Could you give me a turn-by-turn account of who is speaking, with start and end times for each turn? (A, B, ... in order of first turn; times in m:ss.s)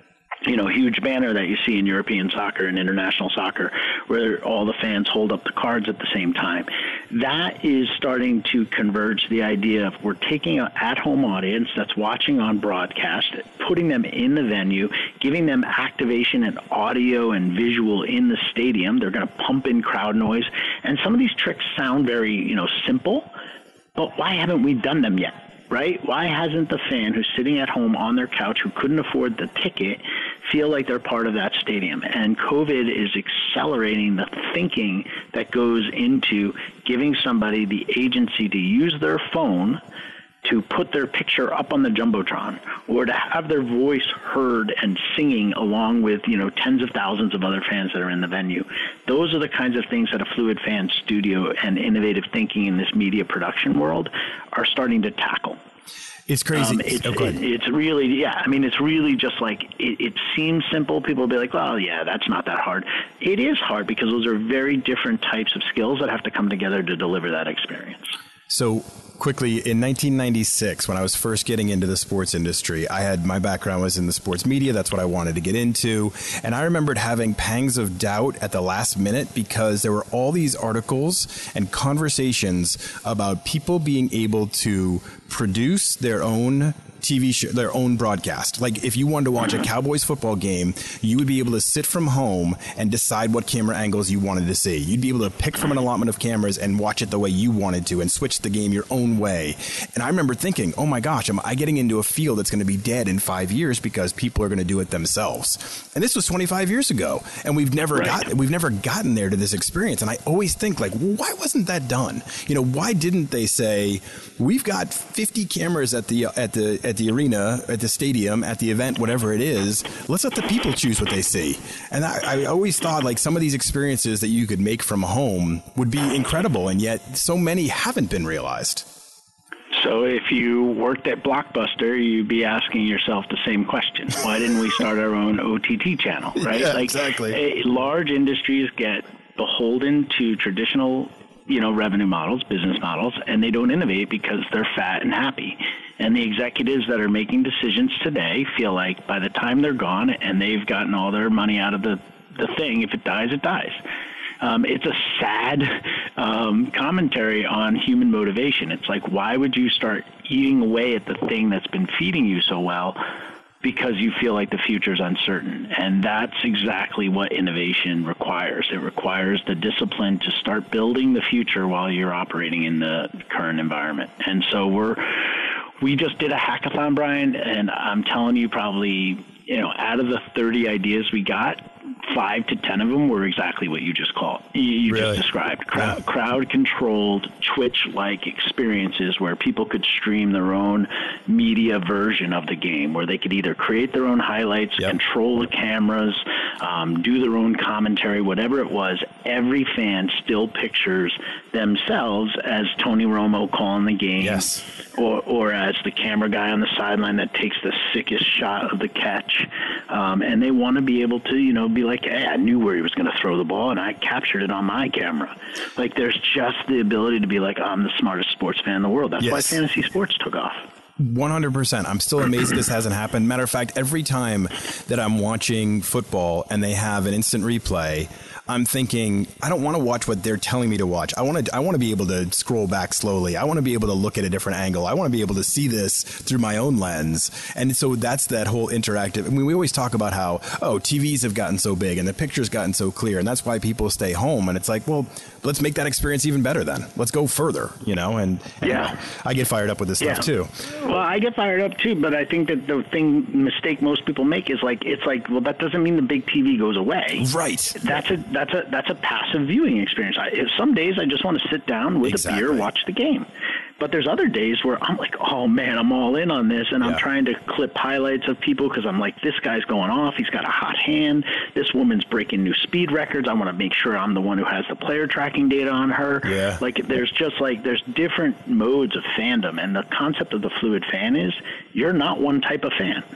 0:00.4-0:23.3 A
0:23.9-0:39.8 A
0:40.4-0:55.6 A
0:56.3-0:57.4 B
0:56.5-1:08.1 A
1:08.5-2:08.9 B
2:09.7-2:33.8 A
2:16.4-2:17.4 B
2:34.4-2:43.0 A
2:43.6-3:40.6 A
3:04.9-3:05.2 B
3:24.2-3:24.6 B
3:39.2-3:39.6 B
3:41.0-4:10.5 B
4:08.6-4:08.9 A
4:10.0-4:17.2 A
4:17.2-4:18.0 B
4:17.8-4:23.3 A
4:22.0-4:22.7 B
4:23.8-4:43.0 A
4:36.2-4:36.6 B